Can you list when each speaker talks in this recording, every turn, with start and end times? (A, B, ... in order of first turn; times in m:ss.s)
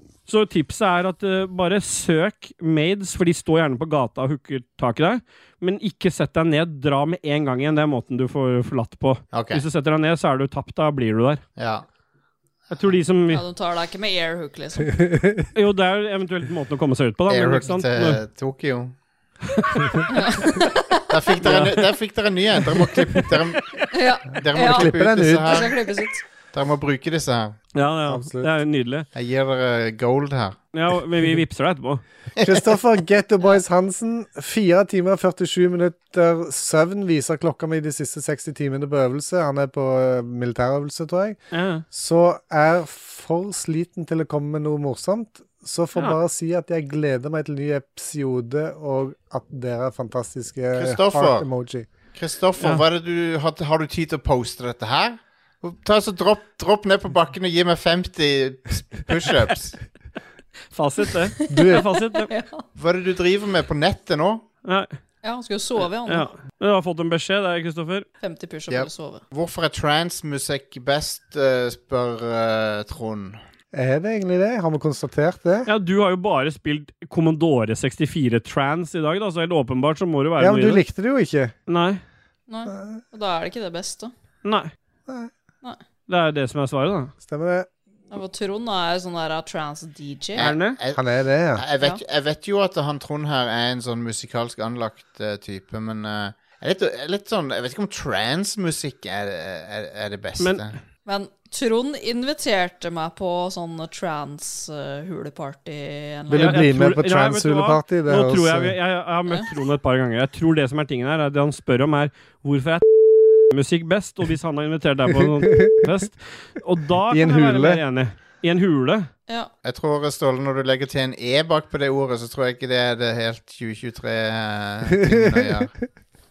0:00.3-0:11.4 A
0:09.3-0:09.6 B
0:11.6-0:11.8 B
0:12.7-0:13.4 A
0:13.3-0:15.0 C
0:15.5-0:18.2 A
0:17.3-0:19.0 B
0:19.6-0:19.9 A
0:20.1-0:21.0 C
0:21.1-0:25.7 B
0:21.4-0:21.8 A
0:23.9-0:26.2 C
0:24.6-0:25.7 D
0:26.5-0:27.6 B
0:27.7-0:29.1 A
0:28.0-0:28.5 D
0:29.1-0:30.6 B
0:30.7-0:32.0 A
0:32.4-0:32.6 B
0:32.4-0:41.4 D
0:41.5-0:41.8 A
0:41.9-0:51.9 D
0:50.7-0:51.5 B
0:52.1-0:59.8 B
0:52.6-0:52.8 A
1:00.7-1:02.3 A
1:01.4-1:02.6 C
1:01.5-1:01.8 D
1:02.7-1:04.4 B
1:04.6-1:04.9 A
1:05.2-1:06.3 C
1:06.0-1:08.0 A
1:08.2-1:09.2 C
1:08.7-1:13.4 B
1:13.7-1:15.7 D
1:15.6-1:20.8 A
1:20.4-1:21.5 D
1:21.7-1:22.0 A
1:22.5-1:24.1 C
1:22.7-1:23.0 D
1:24.4-1:24.7 A
1:26.1-1:27.1 A
1:27.2-1:27.7 D
1:28.1-1:30.5 C
1:30.4-1:40.8 B
1:30.4-1:30.8 A
1:30.9-1:31.6 D
1:40.4-1:40.6 A
1:41.0-1:46.6 C
1:46.3-1:48.8 D
1:46.3-1:52.8 A
1:53.4-1:59.1 A
1:57.1-1:57.8 D
1:59.6-2:05.7 B
2:05.0-2:05.7 D